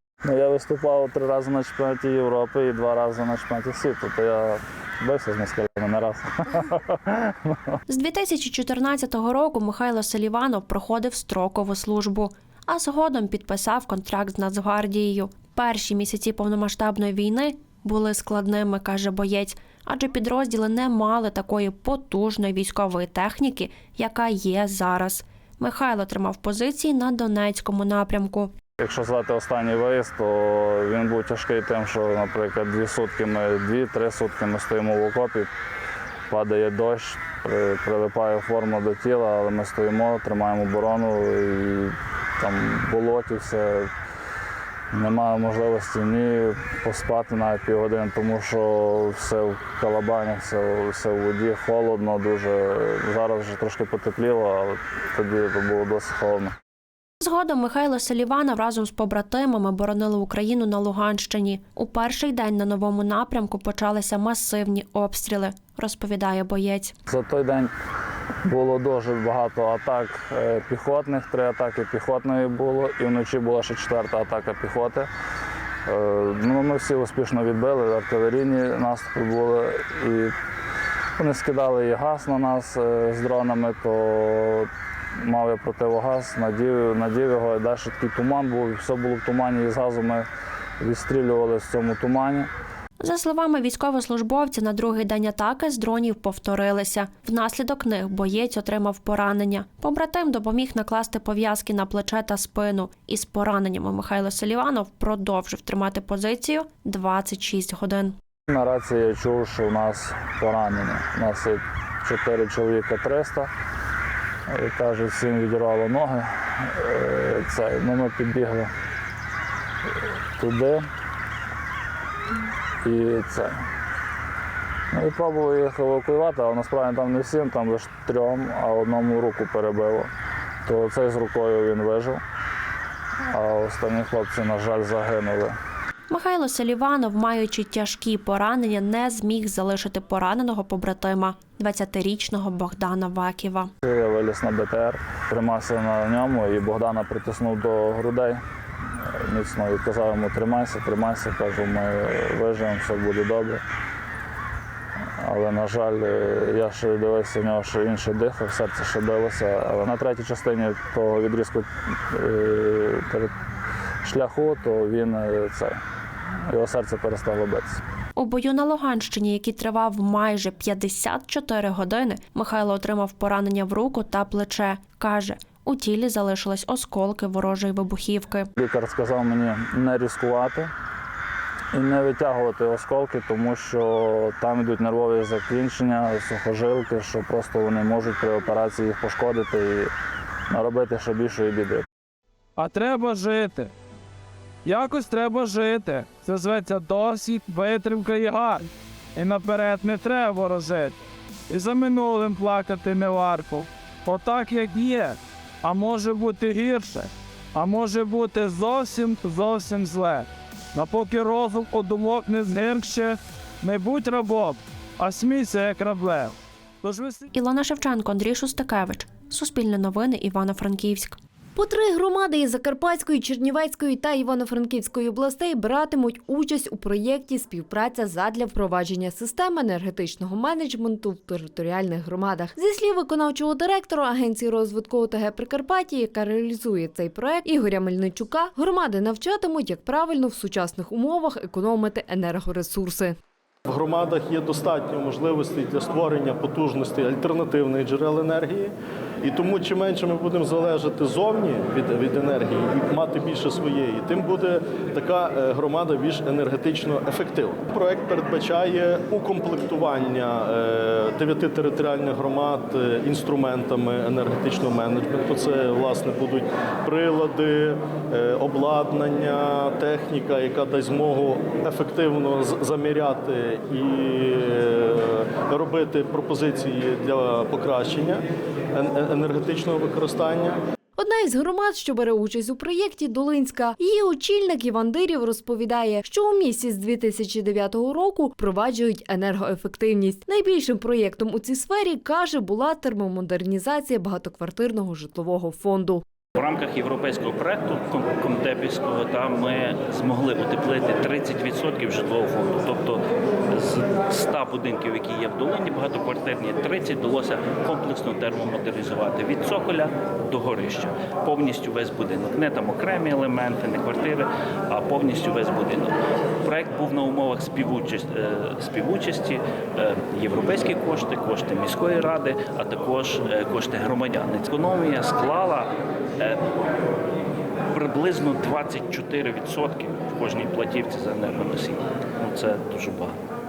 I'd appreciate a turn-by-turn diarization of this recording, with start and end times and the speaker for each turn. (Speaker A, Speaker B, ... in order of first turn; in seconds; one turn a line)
Speaker A: 0.2-7.7
Speaker B: 7.9-28.5
Speaker A: 28.8-35.5
Speaker A: 36.3-43.9
Speaker A: 44.9-56.5
Speaker B: 57.2-66.9
Speaker A: 67.1-67.7
Speaker A: 68.5-75.1
Speaker A: 75.9-80.3
Speaker A: 81.2-84.7
Speaker A: 85.2-90.2
Speaker A: 90.8-92.5
Speaker B: 93.0-108.2
Speaker A: 108.5-113.5
Speaker A: 114.5-118.7
Speaker A: 120.4-120.8
Speaker A: 122.8-123.5
Speaker A: 124.9-130.1
Speaker A: 130.7-132.2
Speaker A: 133.3-135.5
Speaker B: 136.1-143.7
Speaker A: 143.8-148.4
Speaker A: 149.1-153.6
Speaker A: 155.2-163.3
Speaker A: 164.0-165.8
Speaker A: 166.5-167.8
Speaker B: 168.2-178.5
Speaker A: 178.6-180.7
Speaker A: 181.7-189.9
Speaker A: 190.5-191.8
Speaker C: 192.6-193.7
Speaker C: 194.6-200.9
Speaker C: 201.5-217.3
Speaker B: 217.3-221.2
Speaker D: 221.6-243.2
Speaker E: 243.7-280.6
Speaker D: 281.0-296.0
Speaker F: 296.4-326.4
Speaker F: 327.7-333.2